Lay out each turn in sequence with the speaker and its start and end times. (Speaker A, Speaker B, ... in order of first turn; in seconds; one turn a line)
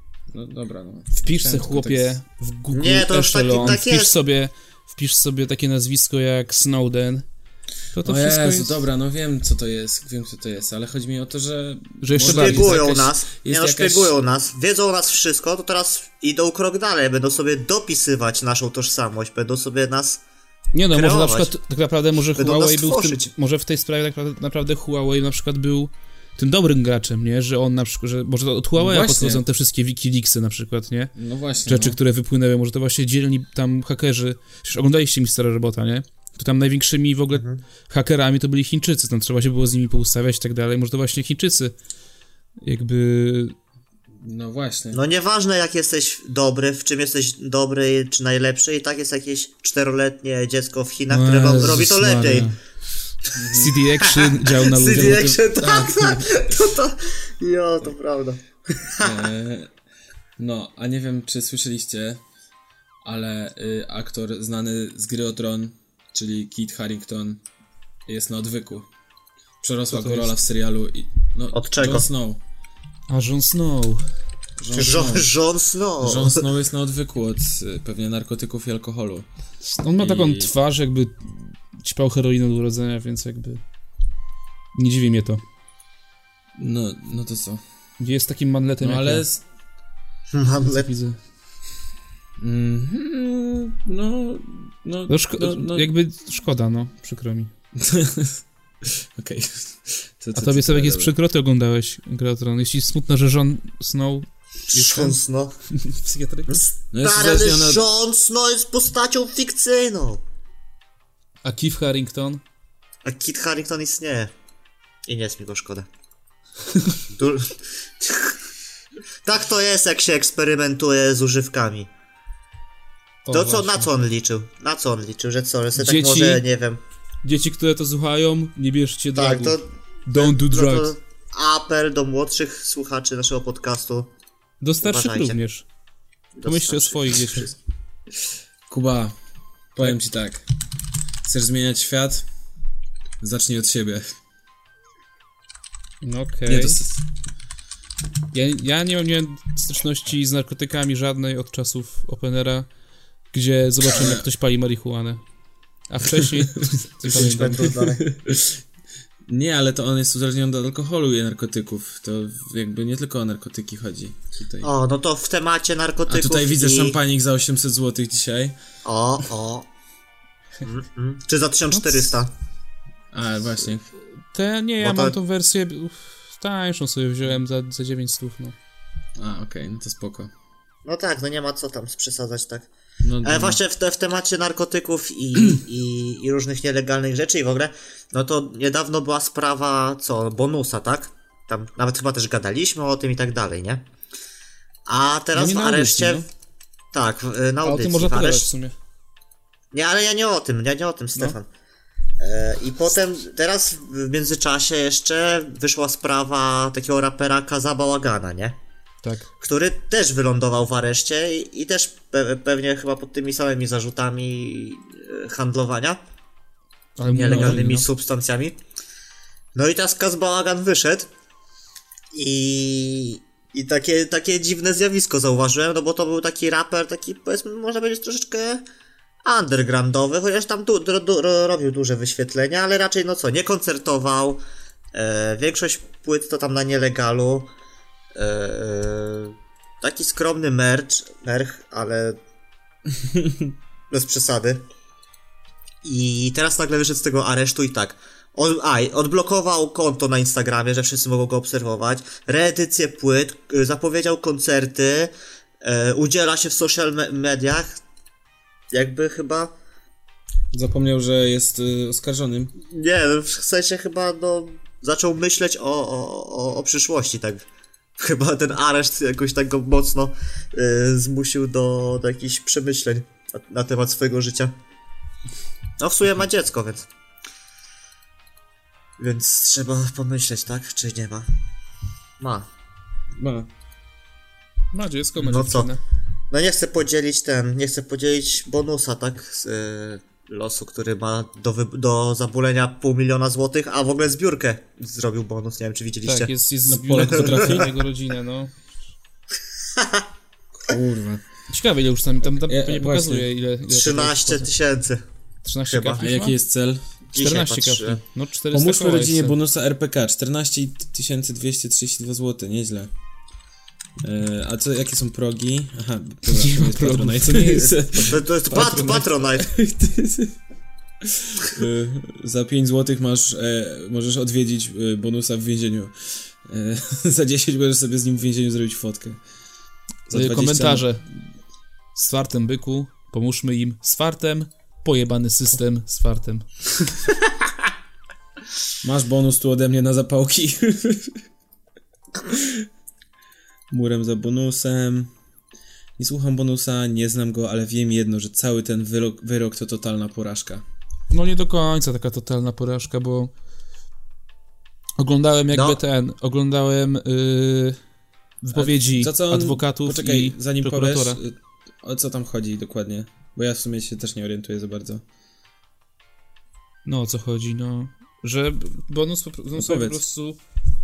Speaker A: 0.3-2.1
Speaker B: 1.1-7.2
Speaker C: 2.7-4.1
Speaker B: 7.9-8.8
Speaker A: 8.0-14.1
Speaker B: 12.0-12.8
Speaker C: 12.2-20.2
Speaker B: 20.7-31.1
Speaker C: 20.9-21.5
Speaker C: 22.4-23.3
Speaker A: 28.8-29.4
Speaker A: 31.1-32.0
Speaker B: 31.7-41.7
Speaker C: 37.3-37.6
Speaker B: 42.6-43.5
Speaker A: 44.1-45.0
Speaker C: 44.9-52.5
Speaker B: 51.1-52.6
Speaker A: 53.4-53.8
Speaker B: 53.5-55.4
Speaker C: 54.0-59.3
Speaker A: 54.8-56.5
Speaker A: 58.9-59.7
Speaker A: 60.4-62.2
Speaker A: 63.0-67.4
Speaker A: 68.1-68.9
Speaker A: 69.6-72.4
Speaker B: 69.9-70.4
Speaker C: 71.5-72.1
Speaker B: 73.1-74.0
Speaker A: 74.6-75.3
Speaker C: 74.7-76.4
Speaker A: 76.0-79.3
Speaker B: 79.6-83.6
Speaker A: 80.0-80.5
Speaker B: 84.8-85.4
Speaker A: 86.6-87.6
Speaker B: 88.0-89.2
Speaker A: 88.8-89.4
Speaker C: 90.3-90.9
Speaker B: 90.6-91.2
Speaker A: 92.4-95.9
Speaker B: 95.1-97.5
Speaker A: 97.8-101.1
Speaker B: 100.3-105.2
Speaker C: 104.7-105.6
Speaker B: 105.8-106.6
Speaker C: 106.5-110.2
Speaker A: 106.9-107.9
Speaker B: 111.4-112.4
Speaker C: 113.0-114.3
Speaker C: 115.1-115.9
Speaker C: 117.1-118.4
Speaker C: 119.2-121.9
Speaker B: 123.3-123.9
Speaker C: 123.3-126.8
Speaker B: 125.8-126.4
Speaker B: 127.2-130.9
Speaker C: 129.2-134.1
Speaker B: 134.6-135.7
Speaker C: 134.8-135.4
Speaker C: 136.4-137.5
Speaker B: 136.4-137.5
Speaker A: 138.7-139.2
Speaker A: 139.7-140.4
Speaker A: 141.2-142.3
Speaker A: 143.2-144.1
Speaker B: 146.0-146.8
Speaker A: 146.5-147.0
Speaker B: 148.3-152.7
Speaker B: 153.3-155.2
Speaker A: 153.9-154.3
Speaker B: 155.9-157.7
Speaker C: 157.1-158.0
Speaker A: 157.1-158.6
Speaker A: 159.3-164.7
Speaker C: 164.6-167.0
Speaker A: 166.1-168.6
Speaker C: 168.8-169.7
Speaker C: 170.6-172.3
Speaker A: 173.1-173.9
Speaker B: 174.3-178.6
Speaker C: 174.8-175.2
Speaker A: 179.2-180.3
Speaker C: 180.8-182.7
Speaker A: 183.0-183.6
Speaker C: 183.2-193.8
Speaker C: 194.9-196.2
Speaker B: 195.3-196.3
Speaker C: 196.9-198.5
Speaker B: 197.6-198.7
Speaker C: 199.7-201.5
Speaker C: 202.2-208.6
Speaker B: 209.0-209.3
Speaker C: 209.4-216.0
Speaker B: 217.0-217.9
Speaker C: 217.1-218.6
Speaker C: 219.6-221.1
Speaker C: 222.1-228.6
Speaker C: 229.2-234.4
Speaker C: 234.9-237.5
Speaker C: 238.2-242.2
Speaker A: 243.0-243.5
Speaker C: 243.9-244.6
Speaker C: 245.8-257.8
Speaker C: 258.7-259.5
Speaker A: 260.5-262.5
Speaker C: 262.7-267.4
Speaker C: 268.0-274.5
Speaker C: 275.8-276.9
Speaker C: 279.0-281.3
Speaker C: 282.2-282.5
Speaker A: 283.1-283.5
Speaker B: 284.7-285.8
Speaker C: 285.2-285.7
Speaker C: 286.3-296.3
Speaker B: 296.1-298.6
Speaker A: 296.7-297.7
Speaker C: 297.1-297.6
Speaker C: 299.8-300.0
Speaker A: 300.6-301.2
Speaker B: 301.5-304.5
Speaker A: 302.4-303.3
Speaker C: 303.7-305.0
Speaker B: 305.4-306.4
Speaker C: 305.7-306.0
Speaker A: 306.0-306.8
Speaker C: 307.1-308.0
Speaker B: 307.2-309.4
Speaker A: 308.5-312.9
Speaker A: 314.0-320.4
Speaker B: 316.3-318.1
Speaker C: 318.0-319.5
Speaker A: 321.0-329.2
Speaker A: 330.1-330.9
Speaker B: 330.1-331.1
Speaker B: 331.9-336.9
Speaker A: 338.8-341.2
Speaker A: 342.3-342.7
Speaker A: 343.7-345.1
Speaker A: 346.0-350.6
Speaker B: 351.1-353.3
Speaker B: 355.0-357.8
Speaker C: 355.5-355.8
Speaker B: 358.4-361.2
Speaker A: 358.5-365.0
Speaker B: 366.9-370.4
Speaker A: 369.6-370.0